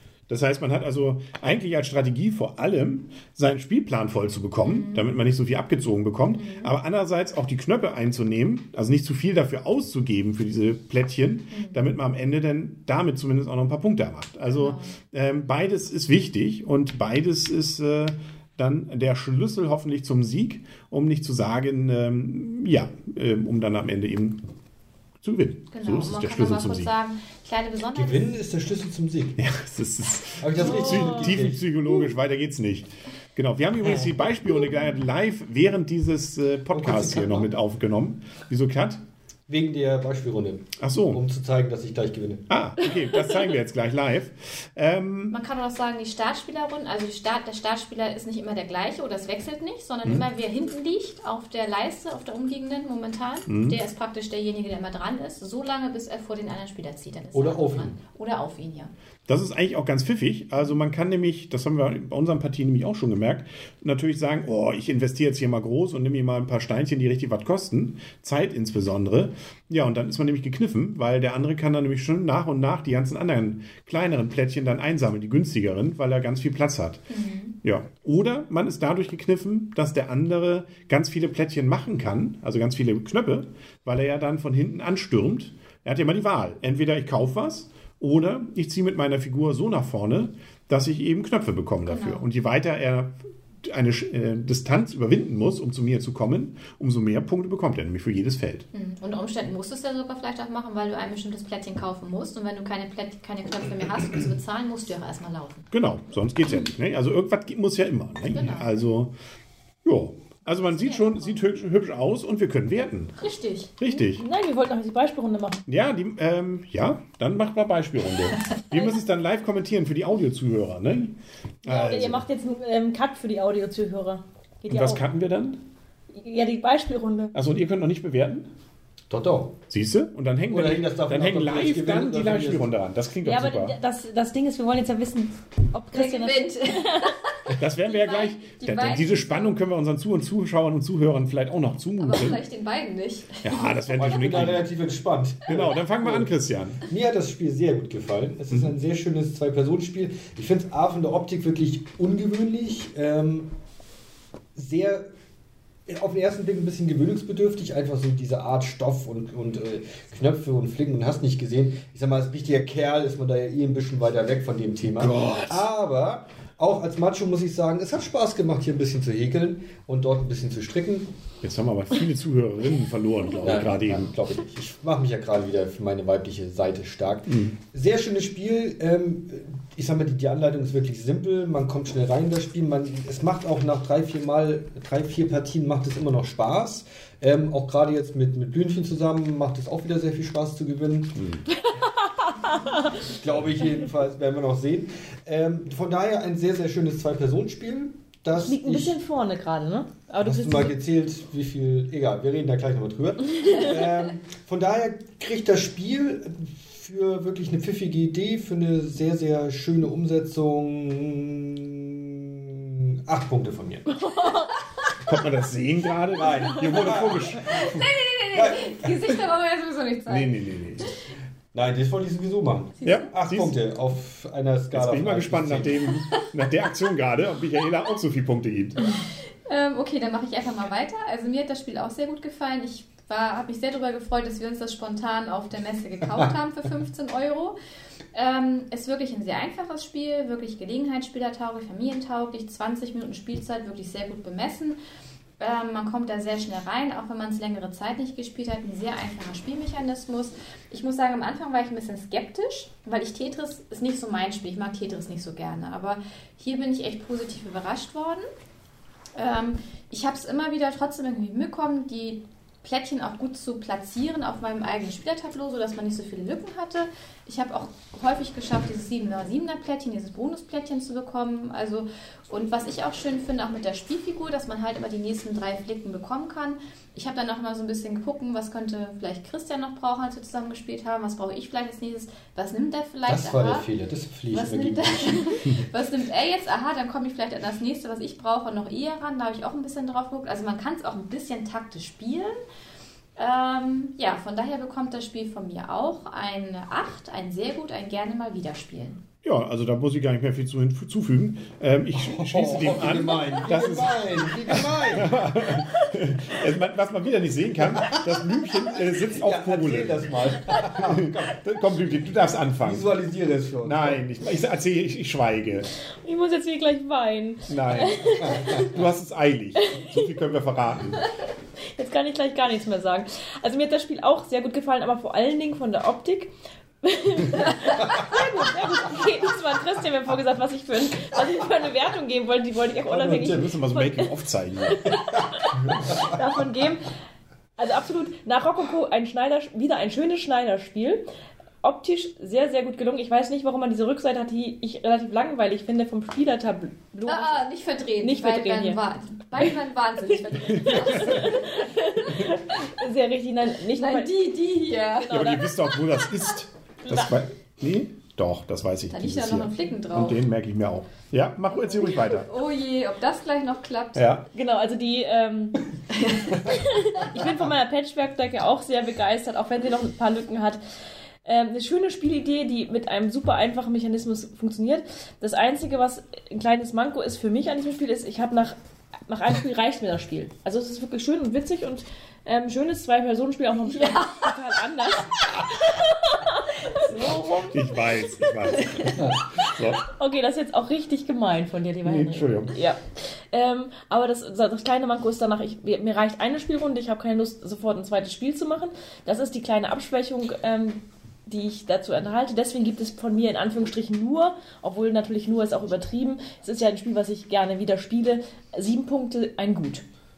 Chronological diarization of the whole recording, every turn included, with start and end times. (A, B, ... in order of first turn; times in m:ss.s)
0:00.3-0:24.4 A
0:04.6-0:05.1 B
0:06.4-0:06.8 B
0:11.5-0:11.8 B
0:14.5-0:15.0 B
0:25.2-0:26.9 A
0:25.7-0:28.4 B
0:28.0-0:29.4 C
0:29.4-0:39.0 A
0:30.4-0:31.6 C
0:30.6-0:31.4 D
0:36.7-0:37.5 C
0:39.5-0:42.4 C
0:40.8-0:41.2 A
0:42.5-0:45.4 A
0:45.3-0:58.9 B
0:53.5-0:53.8 A
0:57.3-0:58.0 C
0:59.3-1:17.0 A
1:17.1-1:17.6 B
1:17.6-1:38.7 A
1:31.8-1:32.3 B
1:38.7-1:45.7 B
1:45.7-1:49.2 A
1:48.3-1:48.8 B
1:49.8-1:53.2 A
1:50.5-1:51.4 B
1:53.2-1:53.8 B
1:53.8-1:54.2 A
1:53.9-1:55.6 D
1:55.7-2:02.2 A
2:01.6-2:05.0 D
2:04.7-2:05.6 A
2:06.1-2:07.3 D
2:07.3-2:08.5 A
2:09.1-2:09.6 C
2:09.7-2:13.8 A
2:10.5-2:12.7 C
2:13.2-2:17.1 D
2:15.9-2:19.6 B
2:17.5-2:22.4 A
2:22.0-2:23.9 B
2:23.4-2:24.7 A
2:23.9-2:33.5 C
2:25.5-2:26.9 A
2:34.6-2:35.0 C
2:35.9-2:51.1 C
2:45.0-2:45.7 A
2:51.4-2:54.1 A
2:53.4-3:11.3 C
2:57.3-2:57.6 A
3:11.2-3:11.4 A
3:11.6-3:12.9 D
3:13.1-3:19.0 C
3:18.3-3:20.8 D
3:20.2-3:33.9 C
3:33.9-3:34.7 D
3:35.0-3:37.8 A
3:36.2-3:37.8 C
3:36.5-3:36.9 D
3:37.4-3:40.9 B
3:38.3-3:39.2 C
3:40.1-3:40.9 A
3:41.5-3:45.9 C
3:42.8-3:43.6 A
3:44.7-3:48.9 A
3:49.4-3:57.6 B
3:58.1-4:04.8 B
4:05.4-4:18.2 B
4:19.2-4:43.7 B
4:43.1-4:45.2 C
4:44.3-4:52.3 B
4:53.2-4:59.0 B
4:59.2-5:12.9 A
5:02.1-5:05.3 C
5:07.8-5:08.2 C
5:08.9-5:11.4 C
5:12.6-5:14.0 C
5:13.6-5:15.7 A
5:16.0-5:18.7 D
5:17.5-5:18.1 A
5:18.2-5:18.6 C
5:18.7-5:21.0 A
5:19.6-5:20.1 D
5:21.8-5:26.3 D
5:26.8-5:36.8 D
5:32.9-5:33.5 C
5:33.5-5:34.8 A
5:35.7-5:36.1 C
5:37.6-5:41.0 D
5:41.6-5:47.4 D
5:47.0-5:51.7 B
5:48.0-5:48.8 D
5:50.5-5:54.1 D
5:50.6-5:51.3 A
5:53.7-5:55.2 B
5:54.9-5:56.2 D
5:55.1-6:02.3 A
5:56.8-5:57.2 D
5:58.9-6:00.2 B
6:01.6-6:04.1 B
6:04.0-6:04.3 A
6:04.3-6:05.7 D
6:06.3-6:10.6 D
6:11.2-6:18.6 D
6:19.1-6:49.8 D
6:23.8-6:24.2 B
6:27.5-6:29.9 A
6:31.8-6:32.5 A